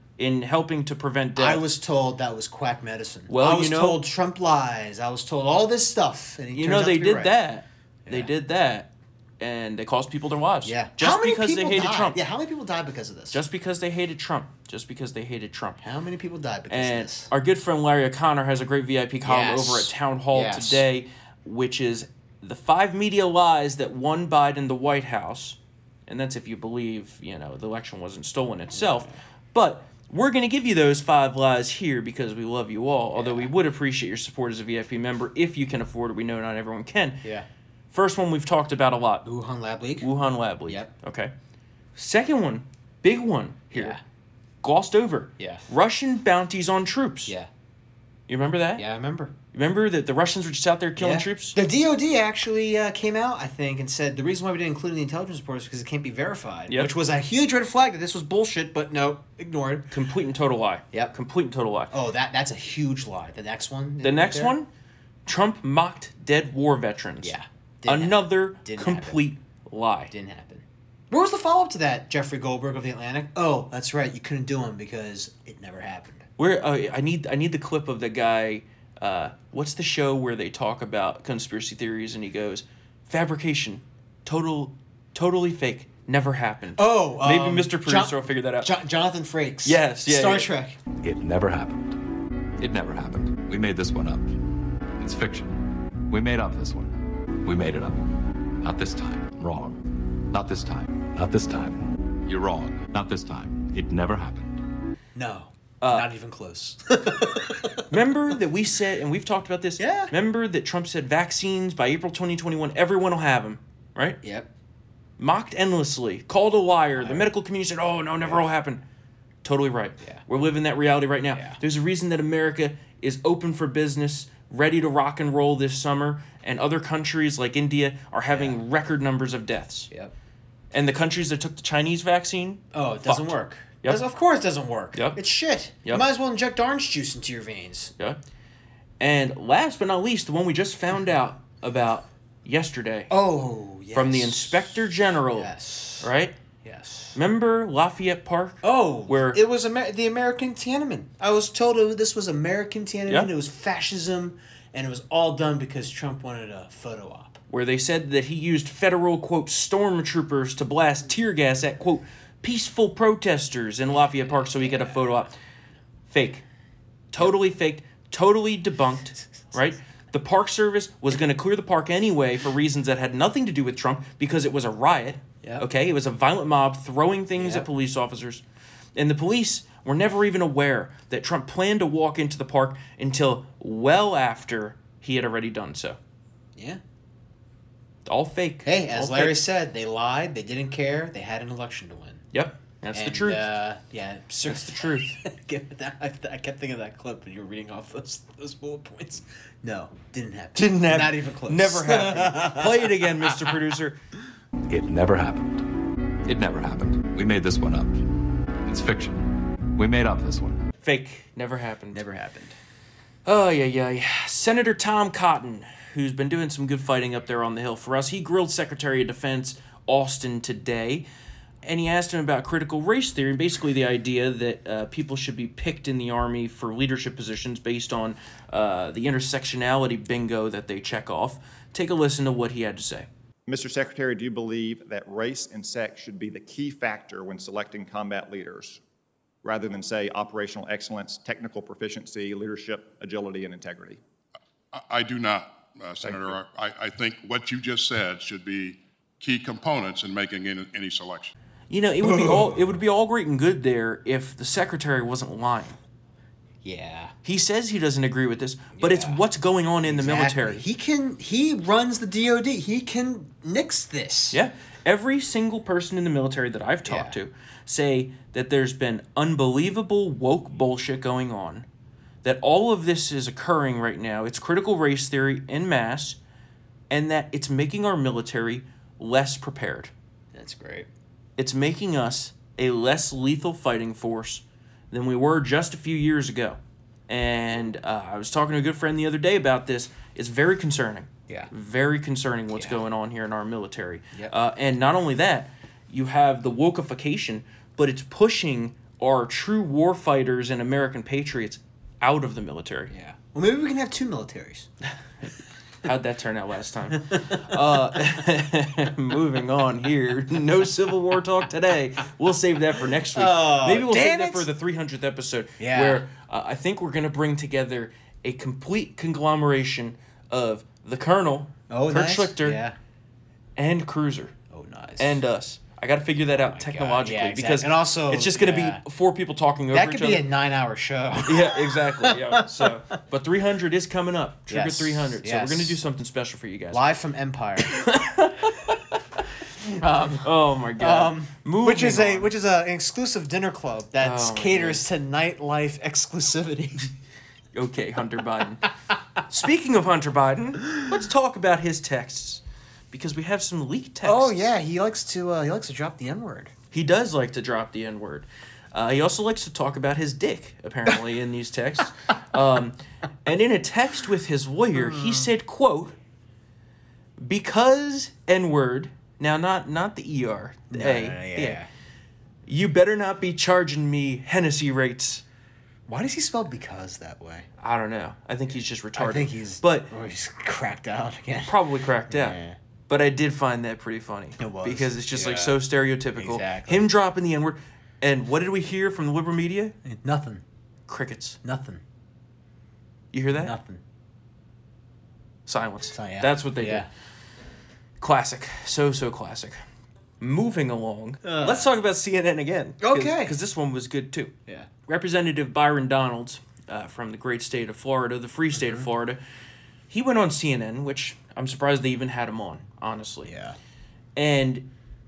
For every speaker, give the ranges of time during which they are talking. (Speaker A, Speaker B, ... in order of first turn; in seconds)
Speaker A: 0.2-1.6, 3.3-4.0, 6.5-12.2, 13.3-15.8, 16.7-37.2, 37.9-39.2, 40.0-41.3, 42.0-44.0, 44.6-47.3, 48.3-48.8, 49.5-51.6, 59.9-61.9, 64.0-64.7, 65.2-67.3, 67.8-70.1, 76.4-88.7, 89.6-90.5, 105.8-106.1, 107.9-114.2, 115.2-118.8, 119.4-129.9, 130.7-134.0, 134.9-135.2, 139.0-143.1, 143.9-145.5, 146.0-146.3, 147.1-149.4, 157.5-165.3, 166.1-166.4, 167.1-178.4, 178.9-186.0, 188.0-189.4, 192.3-193.4, 194.4-195.2, 200.6-204.0, 210.8-212.0, 213.2-221.0, 221.6-233.1, 251.7-255.8, 257.2-260.6, 264.3-271.6, 272.2-276.2, 276.9-279.9, 281.4-302.9, 305.8-322.6, 323.6-324.3, 325.0-330.2, 331.2-336.8, 337.7-339.0, 340.2-342.3, 344.0-344.8, 347.5-348.7, 349.3-354.4, 356.7-365.9, 367.2-371.6, 372.4-375.2, 377.6-379.9, 381.4-382.4, 382.9-389.7, 390.9-391.4, 393.1-393.5, 395.4-396.9, 398.0-399.6, 400.2-404.3, 404.9-409.2, 409.9-413.3, 414.1-414.7
Speaker B: 1.4-7.3, 10.6-13.4, 15.8-17.3, 19.2-20.8, 28.7-29.2, 33.1-33.5, 39.2-40.1, 40.6-40.9, 43.7-44.0, 45.4-45.7, 48.8-49.3, 51.0-59.9, 61.9-64.5, 67.2-69.2, 70.1-76.2, 86.8-90.8, 105.1-107.9, 109.8-110.1, 114.2-114.5, 117.0-117.3, 118.2-118.5, 121.3-121.6, 128.3-128.6, 132.7-137.9, 143.1-146.1, 146.6-147.2, 148.6-157.4, 163.9-165.1, 177.3-177.7, 188.6-192.2, 192.9-203.6, 211.9-212.6, 252.0-252.6, 256.6-257.1, 258.8-259.2, 259.8-264.4, 266.9-267.1, 280.3-280.9, 302.9-304.7, 307.1-307.6, 313.1-314.5, 315.6-316.0, 321.7-322.8, 324.5-325.2, 326.3-328.8, 329.7-332.9, 334.5-335.8, 336.7-337.9, 339.6-346.9, 354.0-356.5, 364.7-365.3, 370.7-371.7, 375.9-377.5, 378.9-382.6, 384.4-385.6, 386.1-386.9, 389.8-390.4, 391.4-391.8, 393.3-393.8, 395.9-396.9, 401.2-401.7, 402.8-403.4, 408.5-408.9, 413.2-413.6
Speaker C: 91.0-92.0, 92.6-94.4, 95.0-104.6, 204.7-205.7, 206.2-208.1, 208.6-210.6
Speaker D: 233.5-238.8, 239.4-244.0, 246.0-246.4
Speaker E: 244.7-251.3